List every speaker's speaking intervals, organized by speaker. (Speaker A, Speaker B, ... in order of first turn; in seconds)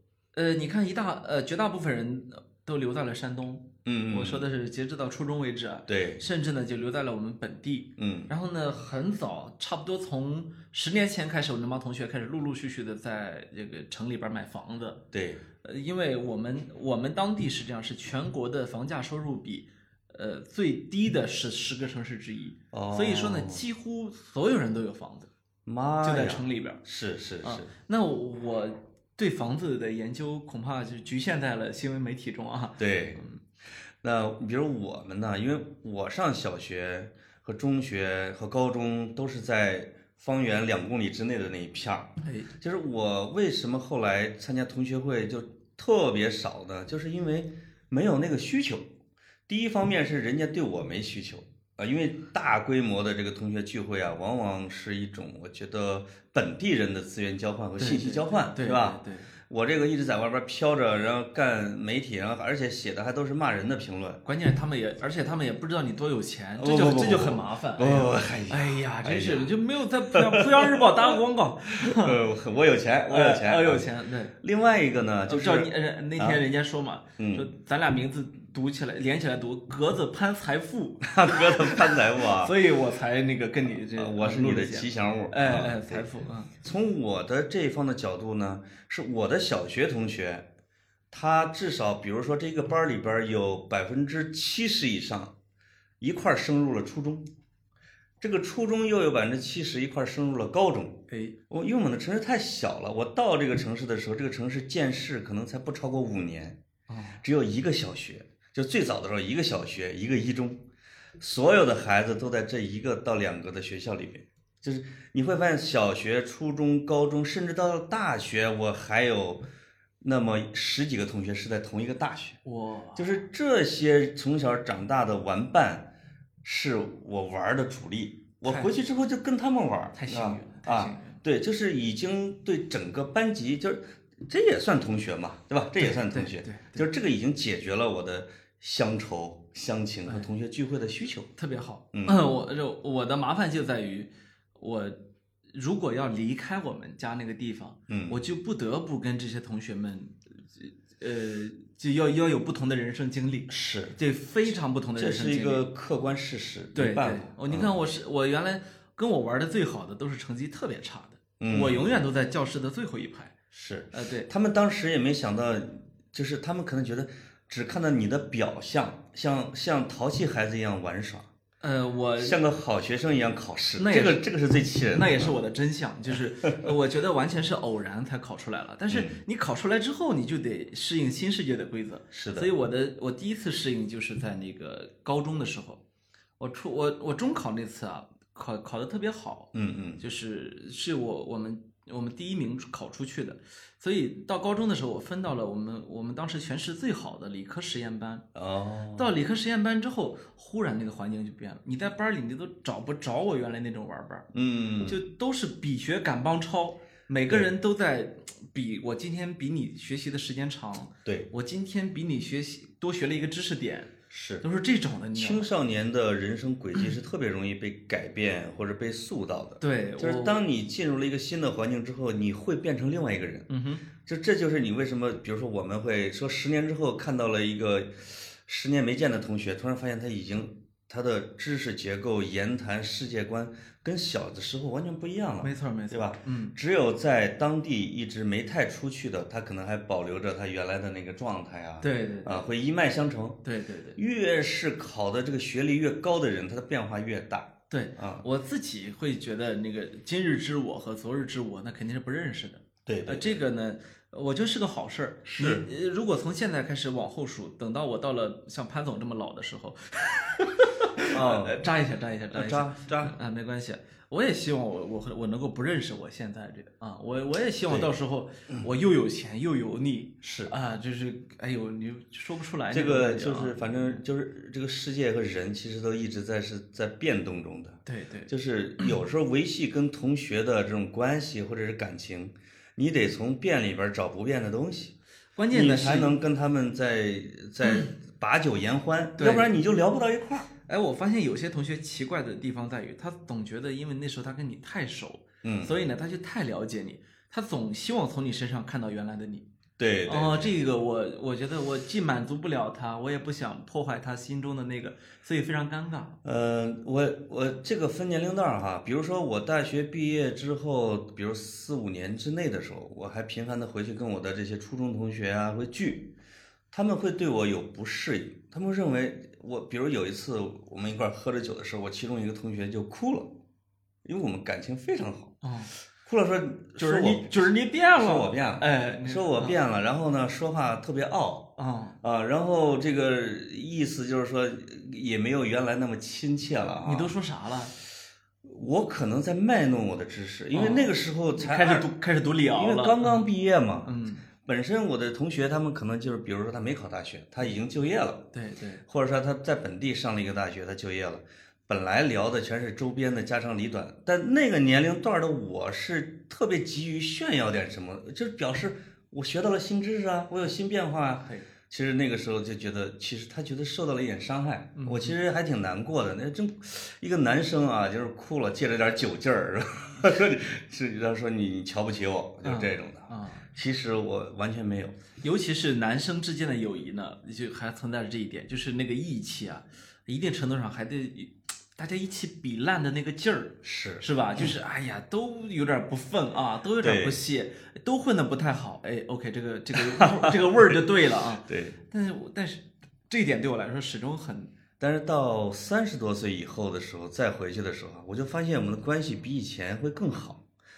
Speaker A: 0.3-15.0, 15.6-25.3, 26.0-26.8, 27.4-33.4, 42.2-42.5, 57.8-59.3, 64.2-72.2, 73.1-74.3, 75.3-86.5, 101.1-101.3, 106.9-107.2, 122.4-123.2, 128.4-128.7, 129.9-131.2, 135.8-136.8, 141.4-145.0, 145.5-155.7, 156.7-163.3, 163.9-164.3, 171.6-172.4, 173.8-174.2, 174.9-185.8, 186.4-198.2, 199.0-204.3, 204.8-215.5, 219.6-220.4, 223.5-223.8, 235.4-236.5, 241.8-242.5, 243.4-244.0, 247.7-274.0, 277.9-278.9, 285.4-286.1, 289.2-289.5, 290.7-299.4, 300.1-306.1, 325.4-325.7, 326.8-329.6, 331.6-332.0, 336.8-337.7, 340.5-343.3, 343.8-344.3, 348.3-348.8, 364.8-365.2, 372.4-373.4, 375.2-394.5
Speaker B: 3.8-4.5, 5.9-6.2, 8.0-8.3, 15.1-15.4, 22.7-23.6, 25.6-27.7, 32.8-33.2, 34.0-48.9, 49.5-64.2, 66.6-69.5, 70.1-73.8, 74.4-76.4, 77.2-77.5, 81.0-82.5, 84.0-86.0, 86.6-90.5, 91.1-95.3, 96.0-97.2, 98.2-106.6, 107.2-110.6, 111.2-119.4, 120.0-122.4, 123.0-125.9, 126.4-141.3, 141.9-142.2, 147.9-148.2, 153.5-153.9, 154.9-157.7, 161.4-161.9, 163.5-171.3, 172.2-175.3, 178.9-179.2, 182.1-182.5, 189.5-190.0, 198.3-199.1, 204.3-205.0, 214.1-214.4, 215.1-223.5, 224.0-243.4, 243.9-248.2, 252.8-253.4, 255.2-255.7, 261.1-261.6, 262.3-263.1, 270.2-270.5, 272.7-284.9, 285.5-290.5, 295.4-295.7, 299.8-300.5, 306.2-316.1, 316.7-323.3, 324.0-325.4, 326.0-337.1, 338.4-341.9, 342.5-343.9, 344.4-348.2, 348.9-375.0, 383.6-384.5, 386.8-387.2, 389.8-390.8, 391.5-391.8, 394.8-400.4